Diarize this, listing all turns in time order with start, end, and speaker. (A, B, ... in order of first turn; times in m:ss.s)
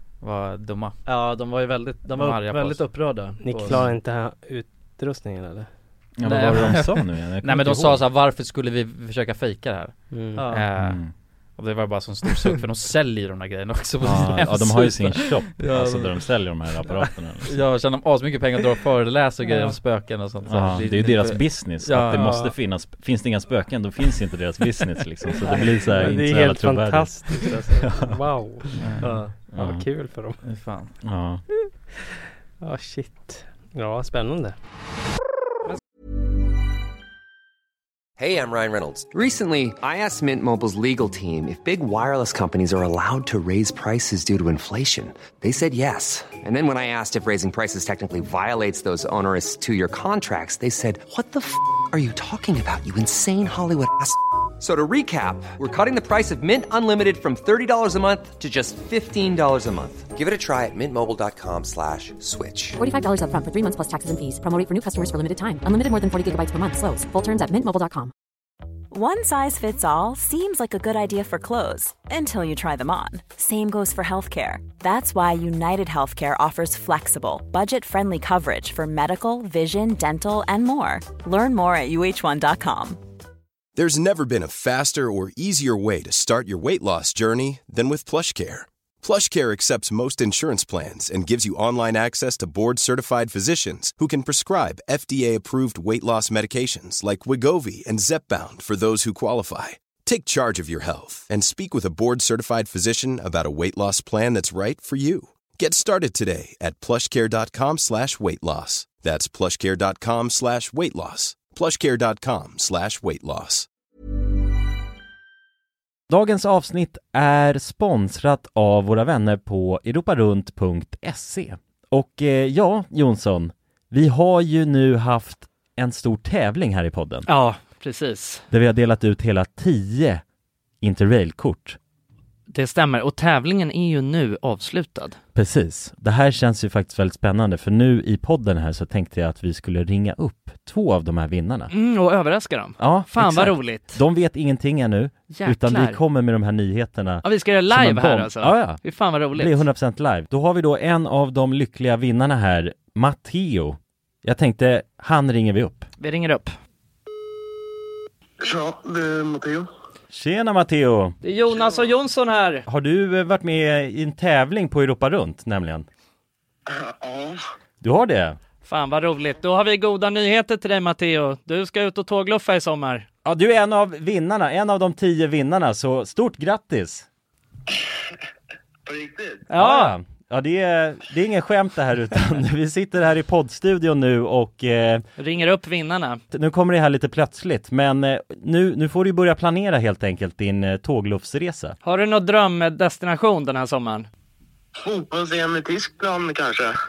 0:00.2-0:01.0 A
0:01.0-0:03.8 B
0:02.1-0:02.8 A
0:03.4-0:05.7 C
0:06.2-0:08.0 D
0:06.2-0:11.0 A
0:10.1-0:10.4 C
0:10.4-0:10.6 B
0:10.8-0:11.1 D
0:11.5-0:16.2 A
0:14.0-0:17.6 D
0:17.4-0:22.4 A
0:20.5-0:28.1 D
0:25.5-0:28.8 C
0:28.8-0:29.1 A
0:29.0-0:29.3 B
0:29.5-0:29.9 D
0:29.5-0:30.4 C
0:30.4-0:30.9 A
0:31.0-0:31.4 D
0:32.6-0:34.6 C
0:38.2-1:02.8 E
1:02.8-1:08.1 F
1:08.9-1:23.0 G
1:23.8-1:53.7 H
1:56.1-2:07.3 D
2:07.2-2:08.4 I
2:08.5-2:10.2 D
2:10.8-2:11.8 D
2:12.5-2:15.2 I
2:15.3-2:21.7 D
2:21.7-2:24.0 I
2:22.8-2:35.9 D
2:25.3-2:26.0 I
2:27.2-2:29.6 I
2:36.0-2:36.5 I
2:38.4-2:39.7 J
2:40.1-2:41.2 D
2:41.2-2:42.7 I
2:42.7-2:45.8 D
2:46.7-2:47.4 J
2:47.8-2:48.4 D
2:48.6-2:53.0 I
2:53.2-2:57.1 D
2:58.8-2:59.4 J
2:59.5-3:00.0 I
2:59.5-3:05.0 D
3:05.2-3:06.2 I
3:06.3-3:11.8 D
3:11.8-3:14.1 I
3:14.8-3:16.7 J